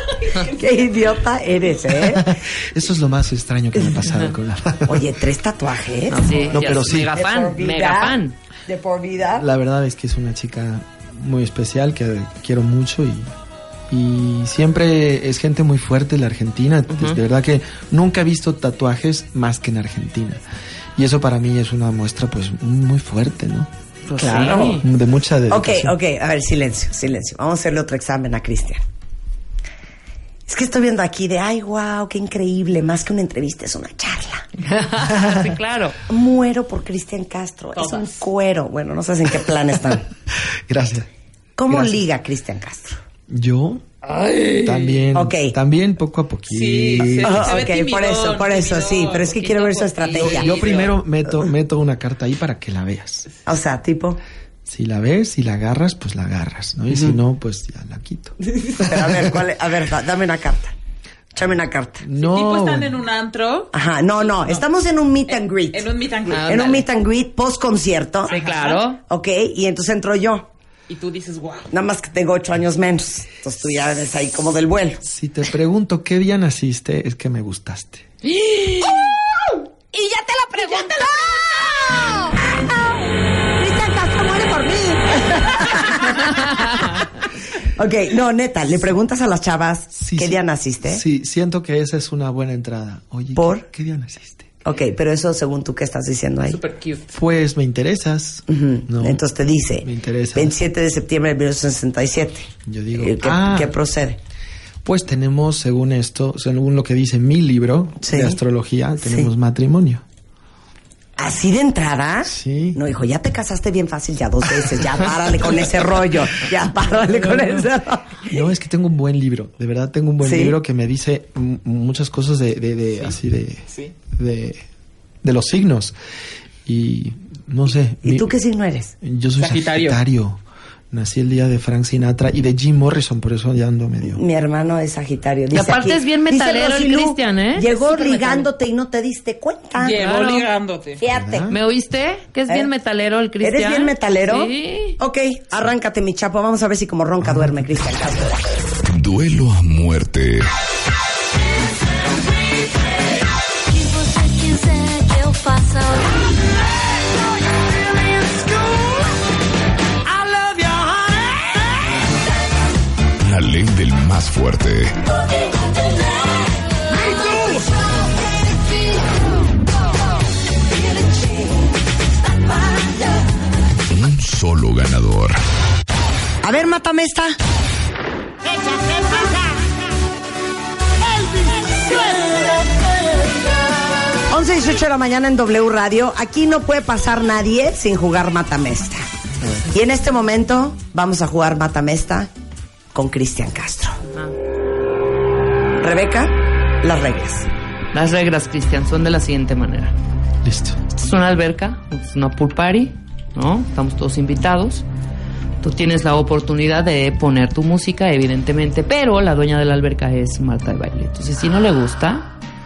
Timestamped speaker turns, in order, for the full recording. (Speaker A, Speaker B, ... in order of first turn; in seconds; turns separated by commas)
Speaker A: 0.4-2.4, Speaker B: 1.9-5.2, Speaker A: 4.9-6.5, Speaker C: 6.1-8.3, Speaker B: 6.5-7.2, Speaker A: 7.1-9.5, Speaker B: 9.4-13.3, Speaker B: 13.9-20.4, Speaker C: 16.9-17.2, Speaker B: 21.0-23.7, Speaker C: 24.1-24.8, Speaker A: 24.2-24.8, Speaker B: 24.3-26.0, Speaker A: 25.5-28.8, Speaker A: 30.5-34.5, Speaker C: 34.6-36.0, Speaker B: 35.0-35.5, Speaker A: 36.1-40.1, Speaker D: 37.8-38.3, Speaker B: 40.7-41.1, Speaker A: 41.6-43.0, Speaker B: 41.7-42.0, Speaker B: 43.3-43.9, Speaker C: 44.2-44.6, Speaker B: 44.6-47.6, Speaker A: 45.1-45.5, Speaker D: 46.5-51.0, Speaker A: 47.1-50.7, Speaker C: 50.0-50.3, Speaker B: 50.2-53.3, Speaker A: 53.5-54.2, Speaker B: 54.7-59.3, Speaker A: 58.7-60.7, Speaker A: 61.3-62.0, Speaker B: 62.0-63.0, Speaker D: 62.2-64.7, Speaker A: 63.7-68.4, Speaker D: 65.3-66.8, Speaker C: 66.3-66.8, Speaker D: 68.3-68.9, Speaker C: 68.3-69.0, Speaker A: 69.0-70.5, Speaker D: 70.9-71.7, Speaker A: 71.7-75.0, Speaker B: 75.0-78.1, Speaker C: 78.2-79.0, Speaker A: 79.5-87.1, Speaker A: 87.6-91.0, Speaker B: 89.9-94.5, Speaker A: 93.3-93.7, Speaker A: 94.7-96.6, Speaker D: 96.5-97.1, Speaker B: 97.1-99.2, Speaker A: 98.5-104.2, Speaker B: 99.8-100.6, Speaker B: 102.7-103.8, Speaker B: 104.8-110.0, Speaker A: 108.0-108.4, Speaker A: 109.0-109.3, Speaker A: 111.2-118.4, Speaker B: 112.3-112.8, Speaker B: 118.3-124.6, Speaker A: 120.2-120.6, Speaker B: 125.2-126.0, Speaker B: 126.7-128.3, Speaker A: 128.0-128.9, Speaker B: 129.0-130.4, Speaker D: 129.4-130.0, Speaker B: 130.9-134.2, Speaker A: 134.1-140.0, Speaker C: 135.5-138.4, Speaker D: 139.8-141.0, Speaker C: 139.9-140.5, Speaker A: 141.0-141.5, Speaker B: 141.1-141.6, Speaker C: 141.5-145.0, Speaker A: 143.4-148.4, Speaker B: 147.2-147.7, Speaker E: 148.8-150.5, Speaker F: 153.7-156.3, Speaker E: 163.2-165.0, Speaker F: 166.9-168.9, Speaker F: 170.9-171.4, Speaker E: 173.9-175.4, Speaker A: 176.4-177.4, Speaker A: 178.6-179.4, Speaker A: 184.3-189.1, Speaker A: 189.7-192.3, Speaker A: 192.9-194.0, Speaker A: 195.8-197.5, Speaker C: 197.9-199.9, Speaker B: 200.4-200.8, Speaker C: 200.9-204.8, Speaker C: 205.6-212.3